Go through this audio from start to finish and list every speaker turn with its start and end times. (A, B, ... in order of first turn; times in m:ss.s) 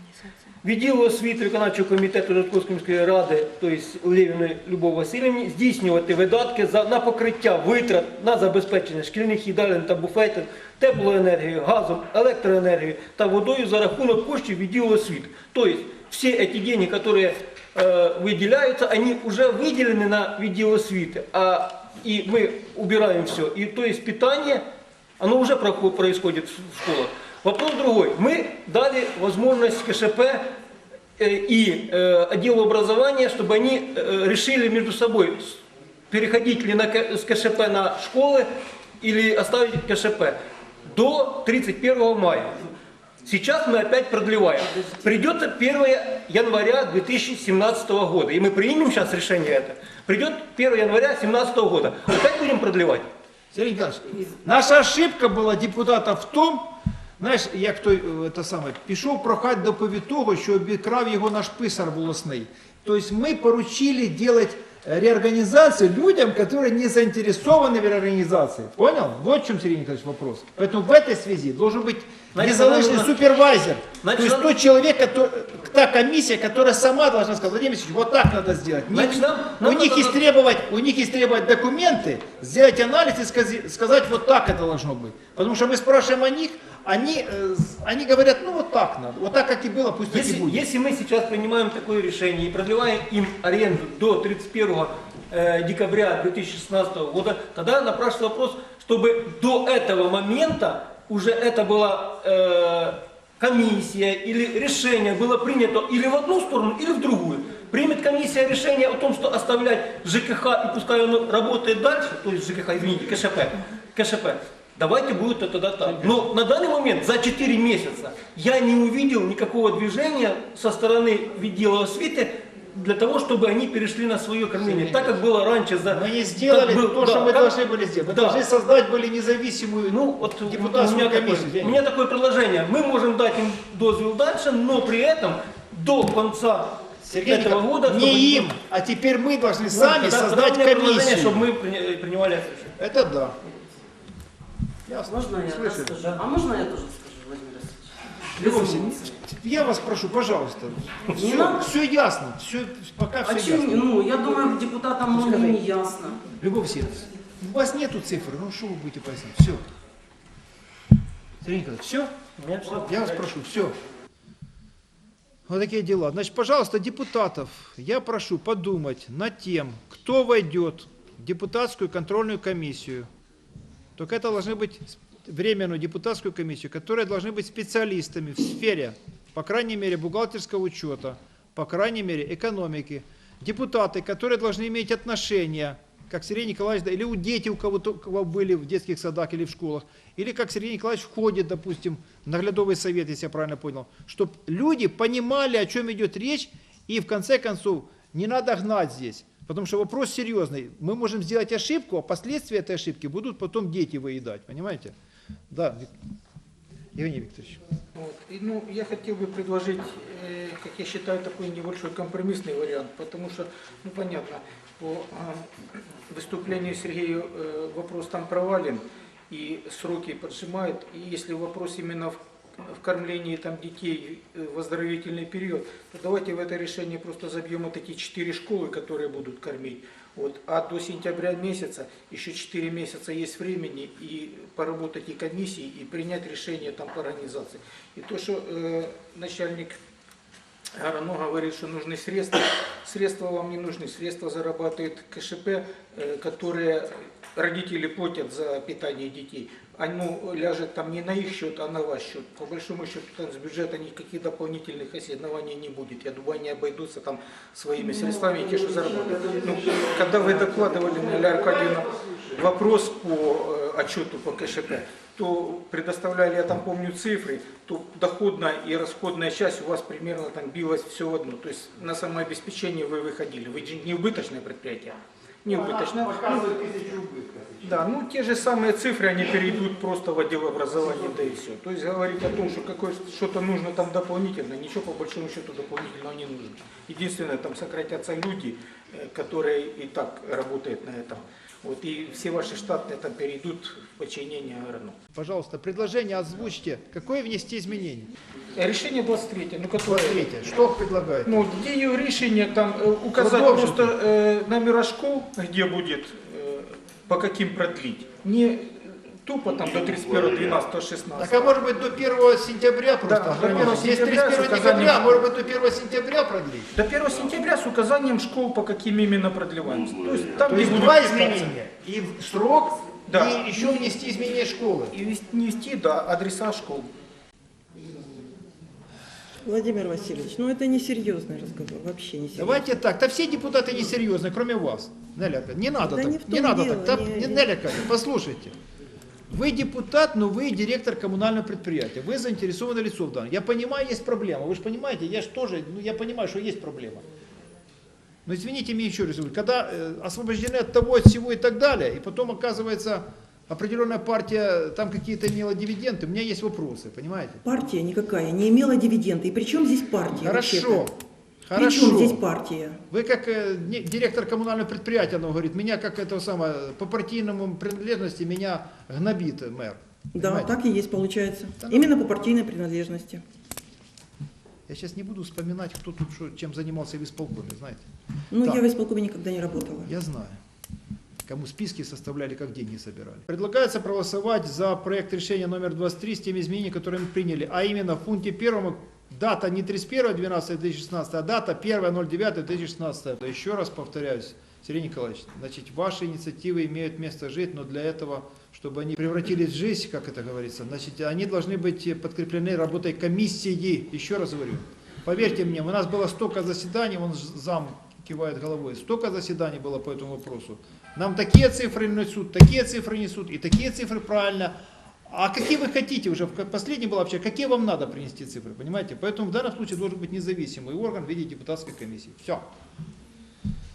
0:00.6-0:24.6 A
0:25.2-0:30.4 A
0:31.2-0:38.5 A
0:39.0-0:40.4 A
0:40.9-0:42.6 A
0:43.2-0:53.1 A
0:44.8-0:45.0 B
0:53.5-0:56.6 C
0:57.2-1:30.6 C
1:12.3-1:13.2 A
1:14.0-1:14.6 A
1:18.9-1:20.2 A
1:30.1-2:08.4 A
1:55.8-1:56.2 C
2:04.6-2:05.2 C
2:05.8-2:11.8 C
2:09.9-2:18.5 A
2:17.0-2:21.4 C
2:19.7-2:22.8 A
2:22.8-2:23.4 C
2:24.8-2:26.0 C
2:25.0-2:29.2 B
2:28.4-2:33.8 C
2:31.1-2:31.7 B
2:33.2-2:36.2 B
2:35.1-2:35.6 C
2:36.4-2:39.6 C
2:41.4-2:42.1 C
2:42.4-2:43.3 A
2:42.6-2:43.7 C
2:45.5-2:53.1 C
2:54.0-3:24.9 C
3:25.5-3:25.9 C
3:26.9-3:27.6 C
3:27.9-3:35.5 D
3:36.1-3:59.8 D
4:00.8-4:36.6 D
4:18.9-4:22.4 C
4:35.5-4:37.7 C
4:37.6-4:55.0 D
4:55.1-4:58.1 C
4:58.6-5:00.3 D
4:59.8-5:01.3 C
5:01.2-5:11.6 D
5:03.2-5:03.9 C
5:11.2-5:16.7 C
5:13.0-5:15.2 D
5:16.7-5:21.5 D
5:20.4-5:24.9 C
5:23.1-5:23.4 D
5:24.9-5:26.9 D
5:29.4-5:32.6 E
5:32.3-5:38.5 C
5:35.8-5:37.5 E
5:39.3-5:47.0 C
5:48.2-5:57.4 C
5:57.4-6:00.8 E
6:00.2-6:00.9 C
6:01.4-6:02.2 C
6:01.5-6:02.8 E
6:02.9-6:10.6 C
6:10.1-6:13.2 E
6:11.6-6:11.9 C
6:14.7-6:17.8 C
6:18.3-6:19.9 E
6:19.8-6:20.3 C
6:21.3-6:54.5 C
6:55.1-7:02.4 C